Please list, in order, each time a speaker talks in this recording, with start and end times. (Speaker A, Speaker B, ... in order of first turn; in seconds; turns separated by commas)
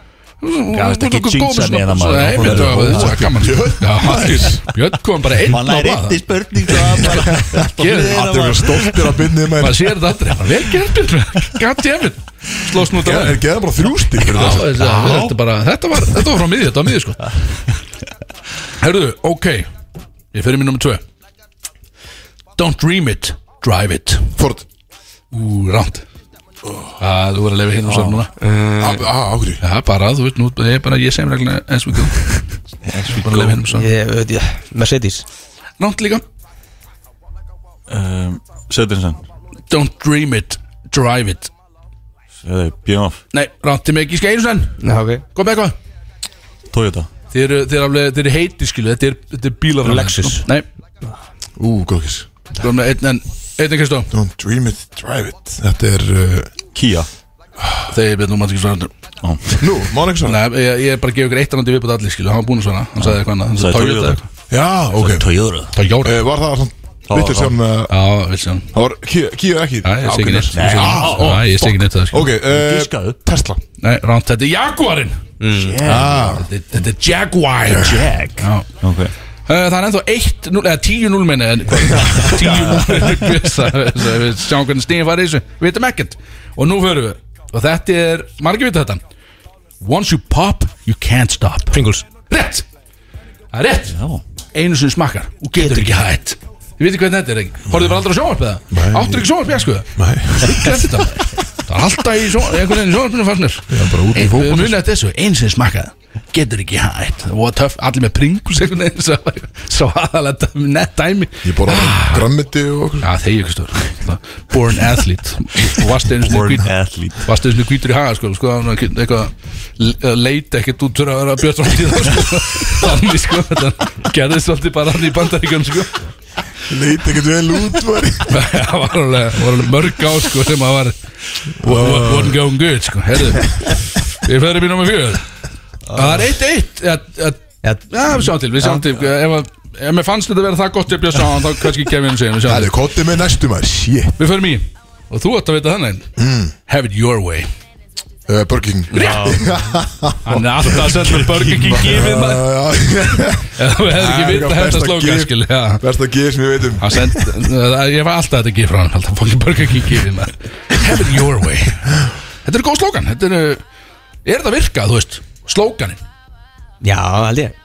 Speaker A: 0.4-8.3, Speaker B: 0.7-3.4, Speaker C: 2.4-4.6, Speaker B: 5.5-9.2, Speaker C: 7.0-10.0, Speaker A: 9.6-13.4, Speaker C: 12.9-14.8, Speaker A: 14.2-17.3, Speaker B: 14.3-15.4, Speaker A: 18.8-19.7, Speaker A: 20.3-21.0, Speaker A: 22.6-24.4, Speaker C: 24.4-24.6, Speaker A: 25.3-26.0, Speaker C: 26.6-26.9, Speaker A: 27.0-28.3, Speaker B: 27.9-28.2, Speaker C: 28.8-29.6, Speaker A: 29.6-32.5, Speaker B: 32.8-33.6, Speaker A: 33.1-33.9, Speaker D: 33.7-35.2, Speaker A: 35.8-36.2, Speaker B: 37.9-39.2, Speaker A: 39.7-41.5, Speaker B: 42.4-43.2, Speaker A: 43.3-44.8, Speaker D: 44.8-45.2, Speaker A: 45.4-45.8, Speaker B: 46.7-47.1, Speaker A: 47.3-50.7, Speaker D: 49.8-50.5, Speaker C: 51.6-52.3, Speaker A: 52.6-54.1, Speaker C: 54.1-56.5, Speaker B: 56.7-57.1, Speaker C: 57.6-57.9, Speaker A: 57.9-58.9, Speaker B: 59.2-59.6, Speaker C: 59.6-60.4, Speaker A: 60.2-64.2, Speaker B: 63.0-64.2, Speaker C: 64.5-65.3, Speaker B: 65.0-65.7, Speaker A: 65.7-66.2, Speaker C: 66.0-67.9, Speaker B: 67.1-67.6, Speaker A: 67.9-68.7, Speaker C: 68.7-73.6, Speaker A: 69.8-72.3, Speaker B: 70.5-71.5, Speaker B: 72.5-73.2, Speaker A: 73.8-75.2, Speaker D: 75.4-75.8, Speaker B: 75.5-76.4, Speaker C: 75.8-76.5, Speaker A: 76.2-78.7, Speaker B: 77.7-79.1, Speaker A: 79.5-89.0, Speaker C: 81.8-83.0, Speaker A: 89.8-92.7, Speaker D: 91.7-92.0, Speaker A: 93.5-94.0, Speaker B: 93.9-94.2, Speaker A: 94.5-112.3, Speaker D: 95.6-96.0, Speaker C: 98.7-101.0, Speaker C: 103.7-104.8, Speaker C: 111.4-113.1, Speaker A: 113.0-126.0, Speaker B: 116.2-117.3, Speaker C: 126.7-128.4, Speaker A: 128.3-135.2, Speaker C: 131.6-132.4, Speaker D: 135.9-136.3, Speaker A: 135.9-142.7, Speaker D: 137.6-138.8, Speaker C: 142.5-144.2, Speaker A: 144.2-146.1, Speaker C: 146.2-146.5, Speaker A: 146.7-147.5, Speaker C: 148.3-157.3, Speaker D: 148.9-149.5, Speaker A: 148.9-149.4, Speaker A: 150.2-152.5, Speaker A: 153.5-155.8, Speaker A: 156.8-163.6, Speaker A: 164.2-166.0, Speaker D: 166.8-167.5